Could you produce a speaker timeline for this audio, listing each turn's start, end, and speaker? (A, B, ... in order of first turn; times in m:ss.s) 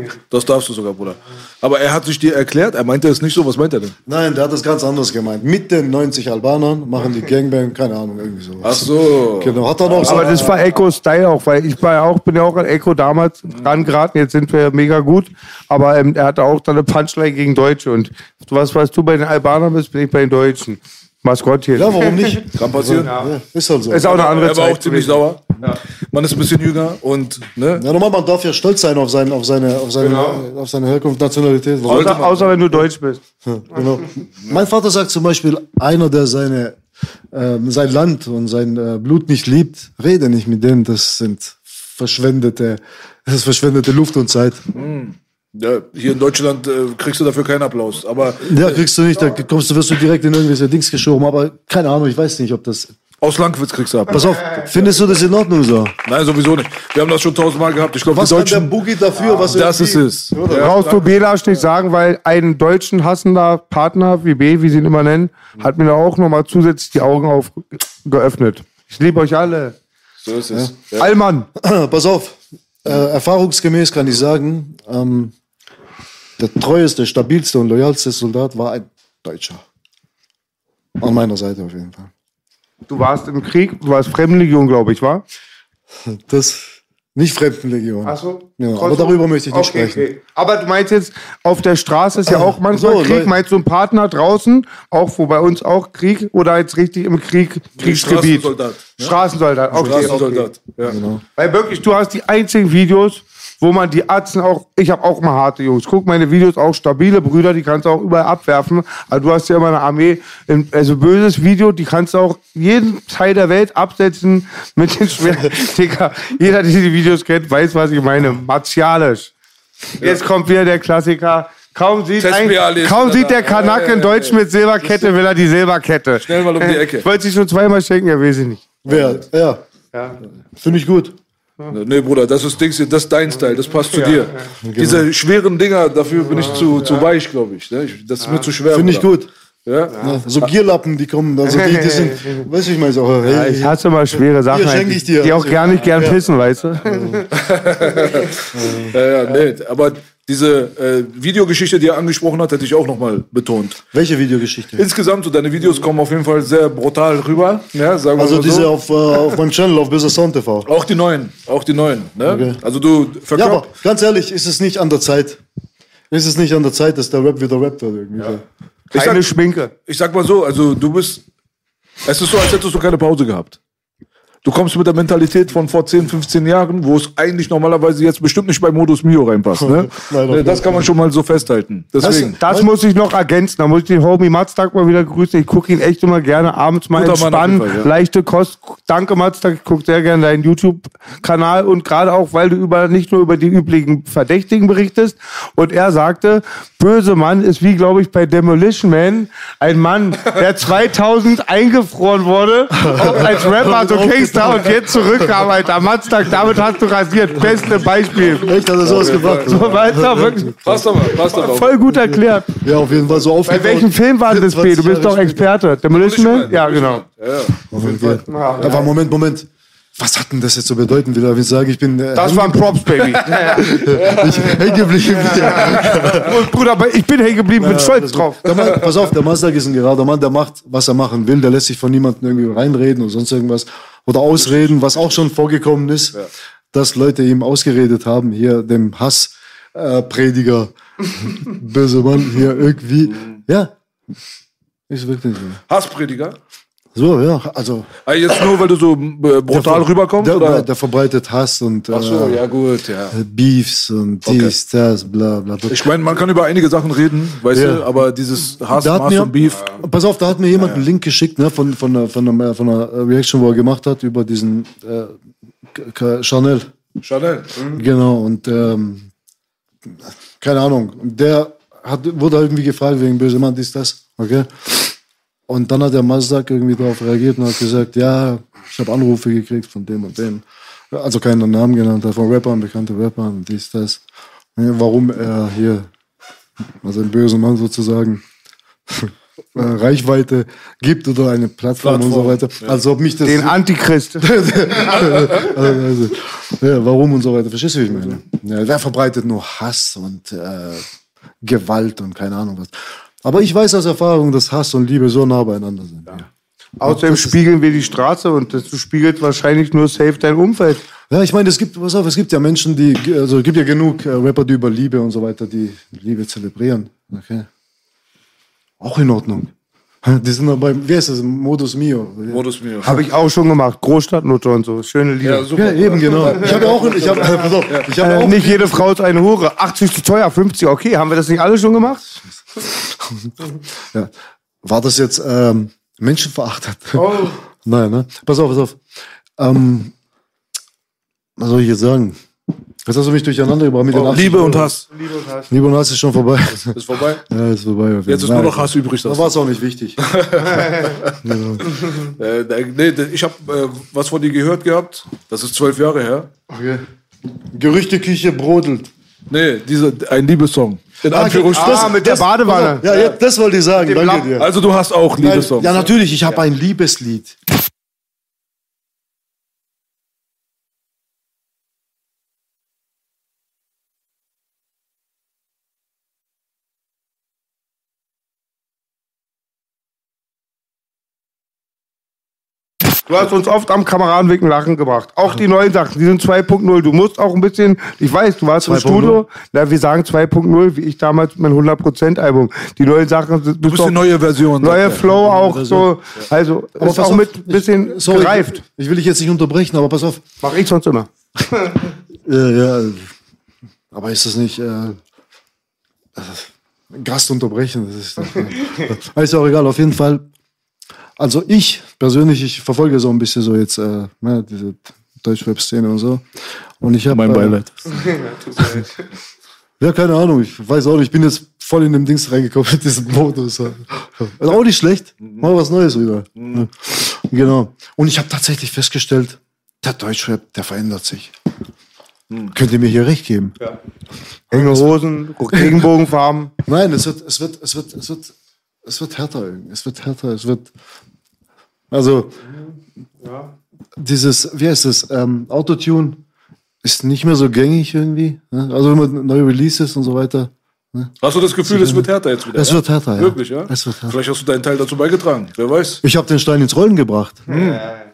0:00.3-0:03.9 A
0:04.0-0:10.5 B
0:08.6-0:10.6 A
0:10.0-0:22.4 C
0:21.8-0:24.1 B
0:22.5-0:23.1 A
0:23.0-0:23.3 C
0:23.9-0:25.8 C
0:24.1-0:27.8 A
0:27.7-0:32.2 B
0:30.0-0:30.4 C
0:31.9-0:32.6 A
0:31.9-0:33.2 C
0:33.4-0:36.8 B
0:37.3-0:44.6 B
0:44.7-0:48.8 A
0:48.4-0:52.9 B
0:53.2-0:55.0 A
0:54.1-0:56.0 B
0:56.0-0:58.7 A
0:58.1-1:00.8 B
0:59.4-1:01.1 A
1:00.4-1:09.8 C
1:10.2-1:11.1 A
1:11.0-1:11.5 C
1:11.6-1:15.3 B
1:16.4-1:19.6 B
1:21.0-1:22.1 B
1:22.9-1:25.2 C
1:26.0-1:30.0 B
1:28.0-1:40.5 C
1:32.3-1:33.3 B
1:37.8-1:39.2 A
1:39.7-1:41.0 A
1:39.8-1:40.2 B
1:40.8-1:41.2 B
1:41.4-1:59.3 C
2:00.0-2:08.6 C
2:02.2-2:05.1 A
2:06.2-2:07.0 A
2:08.8-2:09.6 B
2:08.9-2:09.2 A
2:09.9-2:10.2 C
2:10.6-2:11.2 B
2:11.7-2:19.1 A
2:13.8-2:14.4 C
2:14.6-2:15.0 B
2:16.3-2:17.0 C
2:18.2-2:18.5 C
2:18.7-2:19.3 B
2:19.6-2:20.0 A
2:19.9-2:20.2 C
2:20.0-2:23.8 B
2:21.4-2:22.4 C
2:23.2-2:27.3 C
2:24.4-2:26.2 B
2:26.8-2:27.3 B
2:27.3-2:33.8 A
2:28.5-2:29.0 B
2:33.9-2:34.9 B
2:34.8-2:38.7 A
2:38.2-2:40.7 B
2:40.6-2:43.7 A
2:42.2-2:42.6 B
2:43.3-2:45.4 B
2:46.1-2:48.4 B
2:48.9-2:49.3 A
2:48.9-2:49.7 C
2:49.8-2:51.2 A
2:52.0-2:53.6 A
2:54.4-3:02.4 A
2:59.6-3:00.9 B
3:02.0-3:02.7 B
3:02.0-3:32.6 C
3:06.9-3:07.9 A
3:22.7-3:24.8 B
3:28.0-3:29.8 A
3:28.3-3:30.5 B
3:30.6-3:31.9 A
3:32.6-3:35.5 B
3:33.4-3:37.0 C
3:35.9-3:37.6 A
3:37.7-3:46.4 B
3:37.8-3:38.9 C
3:42.1-3:44.2 C
3:43.9-3:44.7 A
3:45.3-3:48.4 C
3:45.6-3:46.1 A
3:47.6-3:56.2 B
3:54.4-3:55.2 A
3:56.7-4:03.7 B
4:04.9-4:05.6 B
4:05.7-4:06.4 A
4:06.9-4:07.9 B
4:08.0-4:10.7 A
4:09.5-4:12.4 B
4:11.9-4:13.2 A
4:13.1-4:15.9 B
4:14.2-4:14.5 A
4:15.7-4:19.7 A
4:17.5-4:17.9 B
4:18.7-4:25.1 B
4:20.5-4:20.8 A
4:25.7-4:26.7 B
4:27.0-4:27.6 A
4:27.7-4:29.1 B
4:29.9-4:34.9 B
4:35.5-4:44.0 B
4:44.6-4:45.9 B
4:46.8-4:48.2 B
4:48.9-4:53.6 B
4:51.8-4:52.8 A
4:53.2-4:54.3 C
4:54.2-5:00.8 B
5:01.4-5:06.3 B
5:06.8-5:10.8 C
5:06.8-5:07.4 B
5:11.1-5:17.5 B
5:18.8-5:19.5 B
5:20.0-5:22.4 B
5:22.3-5:23.0 A
5:22.8-5:25.5 C
5:25.2-5:27.9 A
5:25.5-5:28.9 B
5:26.3-5:32.0 C
5:32.6-5:33.3 B
5:34.6-5:38.8 B
5:36.9-5:37.4 C
5:39.4-5:39.9 B
5:41.4-5:42.2 B
5:42.9-5:44.7 B
5:43.9-5:44.8 A
5:44.0-5:45.5 C
5:45.5-5:50.0 B
5:46.7-5:47.2 A
5:48.1-5:49.4 A
5:50.0-5:51.2 A
5:51.2-5:51.7 B
5:51.8-5:56.3 A
5:56.5-5:56.8 B
5:57.5-5:58.9 B
5:59.3-6:02.0 A
6:01.0-6:04.5 B
6:01.5-6:03.0 C
6:03.8-6:04.3 C
6:04.4-6:05.9 A
6:05.2-6:07.4 B
6:23.0-6:34.0 C
6:28.6-6:29.2 B
6:33.7-6:35.1 A
6:34.6-6:38.6 C
6:35.0-6:35.9 B
6:36.8-6:40.2 B
6:40.4-6:41.1 C
6:42.2-6:43.1 B
6:43.9-6:45.0 B
6:46.2-6:50.2 B
6:51.2-6:56.2 B
6:56.8-6:57.6 B
6:57.1-6:57.8 A
6:58.0-6:58.9 C
6:59.8-7:11.3 B
7:06.4-7:06.7 A
7:12.5-7:13.5 B
7:14.5-7:14.9 B
7:14.5-7:16.5 C
7:15.5-7:15.8 B
7:16.6-7:18.3 B
7:18.8-7:20.7 B
7:21.9-7:22.4 B
7:23.2-7:23.5 C
7:24.0-7:26.2 B
7:26.8-7:31.1 B
7:31.2-7:36.0 A
7:31.6-7:34.2 B
7:36.0-7:37.4 B
7:37.5-7:37.8 A
7:37.5-7:38.0 C